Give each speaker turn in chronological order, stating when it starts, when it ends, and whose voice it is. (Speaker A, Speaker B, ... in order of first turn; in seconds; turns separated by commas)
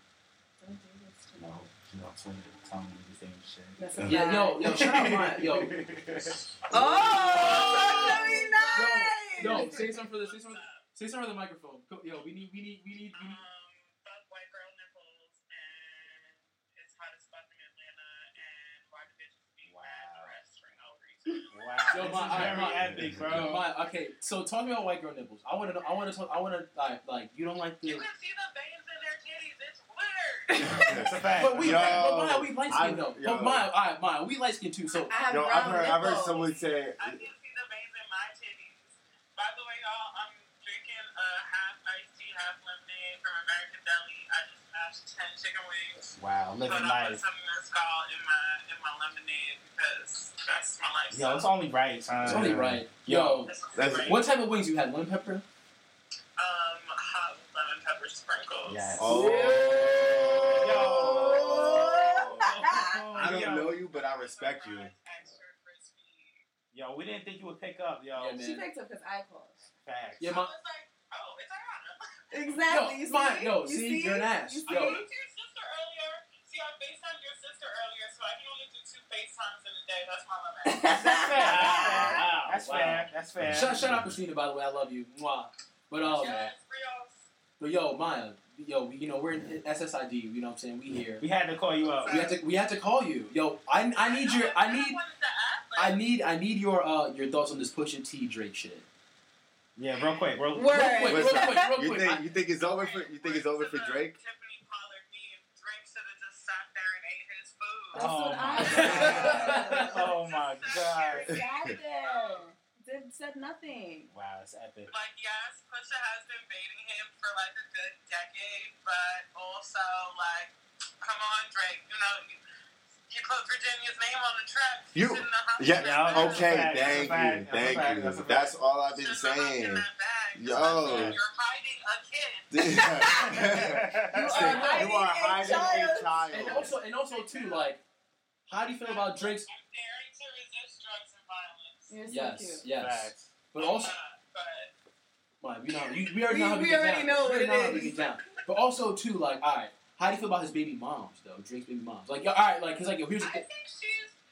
Speaker A: 0.6-1.6, Speaker B: 1.4-6.7, Speaker A: 3.8-4.6, Speaker C: 4.0-4.3, Speaker D: 4.0-5.7, Speaker C: 6.7-7.7, Speaker A: 6.7-9.8, Speaker E: 7.3-10.8, Speaker D: 8.6-13.2, Speaker E: 13.1-21.7, Speaker B: 19.7-20.4, Speaker B: 21.5-23.6, Speaker A: 21.8-22.5, Speaker D: 21.9-28.0, Speaker C: 22.3-23.5, Speaker E: 27.8-31.1, Speaker C: 30.6-33.7, Speaker B: 30.8-32.0, Speaker D: 31.4-35.1, Speaker A: 35.1-36.4, Speaker C: 35.3-37.2, Speaker E: 35.7-51.5, Speaker B: 46.2-47.2, Speaker B: 51.1-53.5, Speaker D: 52.2-53.5, Speaker C: 52.2-52.6, Speaker E: 53.5-54.3, Speaker C: 53.8-54.1, Speaker D: 54.0-55.4, Speaker E: 56.4-59.0, Speaker B: 58.6-59.6, Speaker C: 59.0-62.6, Speaker A: 59.1-63.0, Speaker B: 60.6-63.7, Speaker C: 63.1-64.9, Speaker E: 63.7-66.4, Speaker B: 66.7-68.4, Speaker D: 68.2-68.6, Speaker A: 68.4-69.7, Speaker B: 69.8-70.3, Speaker E: 70.2-72.6, Speaker D: 70.2-70.5, Speaker A: 72.3-75.0, Speaker D: 72.7-75.0, Speaker E: 74.7-81.0, Speaker A: 80.6-82.2, Speaker B: 80.9-84.0, Speaker D: 81.5-86.5, Speaker C: 83.5-84.0, Speaker E: 86.0-87.2, Speaker D: 87.6-91.2, Speaker B: 91.2-92.3, Speaker E: 91.8-92.4, Speaker D: 92.1-95.0, Speaker E: 94.0-96.0, Speaker D: 95.8-98.8, Speaker B: 99.8-101.3, Speaker A: 100.5-101.7, Speaker D: 100.7-102.3, Speaker C: 101.0-104.2, Speaker E: 102.4-108.1, Speaker A: 107.9-110.1, Speaker B: 107.9-111.3, Speaker D: 108.5-109.9, Speaker E: 108.8-112.5, Speaker A: 111.1-114.1, Speaker B: 114.1-114.9, Speaker E: 114.9-122.4, Speaker E: 123.1-127.0, Speaker C: 124.9-131.2, Speaker B: 125.8-128.5, Speaker E: 128.9-133.3, Speaker C: 132.5-136.8, Speaker A: 132.6-133.5, Speaker B: 133.2-134.8, Speaker A: 134.1-136.2, Speaker D: 134.4-134.8, Speaker D: 136.3-137.8, Speaker E: 136.4-137.8, Speaker D: 138.5-139.5, Speaker E: 138.8-141.9, Speaker A: 141.9-142.6, Speaker D: 142.1-143.9, Speaker B: 142.8-143.3, Speaker E: 143.6-144.7, Speaker D: 145.4-153.4, Speaker E: 145.7-146.3, Speaker A: 146.3-148.0, Speaker E: 147.7-148.4, Speaker E: 153.2-154.2